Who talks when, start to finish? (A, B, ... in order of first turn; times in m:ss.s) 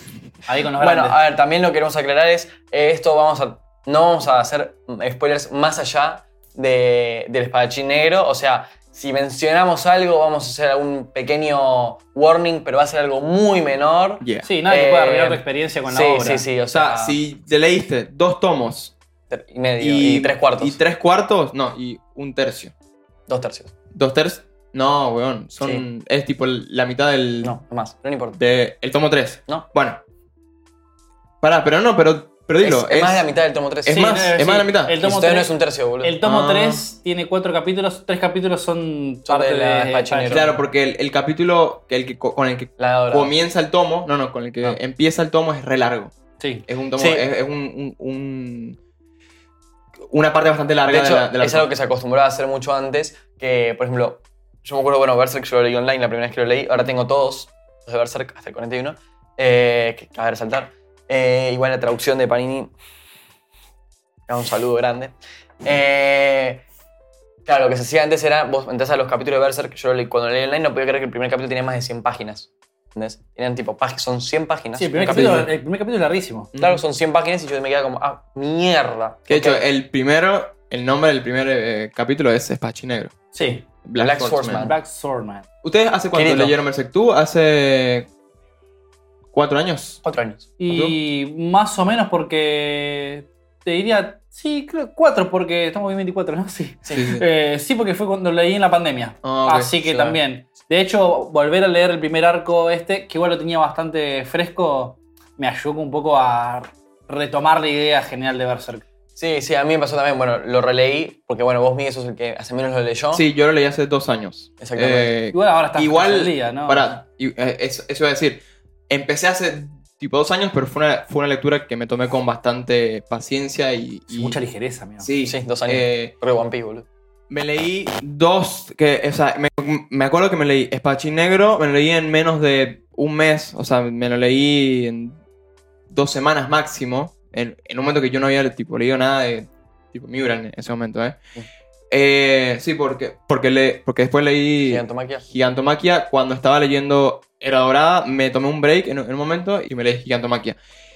0:00.5-0:01.2 A
0:00.8-0:17.2 B
0:14.2-0:14.5 C
0:14.4-0:16.4 A
0:16.7-0:18.9 C
0:19.3-0:20.8 B
0:19.8-0:22.7 C
0:23.3-0:23.7 B
0:23.9-0:27.6 C
0:25.6-0:25.8 B
0:27.4-0:28.4 B
0:28.3-0:30.0 C
0:31.4-0:33.3 C
0:32.6-0:34.2 B
0:33.8-0:35.0 C
0:33.9-0:40.4 A
0:35.0-0:36.2 B
0:36.2-0:36.8 C
0:39.2-0:40.6 B
0:40.3-0:46.1 C
0:42.8-0:43.3 B
0:46.4-0:46.6 A
0:46.6-0:48.8 C
0:47.0-0:47.3 B
0:50.1-0:51.7 C
0:50.9-1:02.7 B
1:04.3-1:05.1 B
1:05.6-1:06.6 B
1:07.4-1:15.4 B
1:14.8-1:16.5 A
1:15.1-1:15.5 C
1:16.5-1:16.8 C
1:16.6-1:19.6 B
1:19.3-1:23.1 C
1:23.3-1:23.6 A
1:23.8-1:24.7 C
1:24.0-1:24.8 B
1:24.5-1:25.4 A
1:25.6-1:28.1 C
1:26.1-1:26.6 B
1:29.3-1:30.0 C
1:30.0-1:30.5 B
1:30.6-1:48.8 A
1:30.7-1:31.0 C
1:36.9-1:37.2 C
1:39.2-1:39.7 C
1:39.8-1:40.2 B
1:49.2-1:53.2 B
1:53.1-2:04.4 C
1:54.6-1:55.1 B
1:55.3-1:56.9 A
2:04.1-2:05.1 A
2:05.0-2:06.1 C
2:05.2-2:06.8 B
2:07.3-2:15.2 C
2:15.9-2:21.2 C
2:21.9-2:30.6 C
2:24.6-2:25.2 B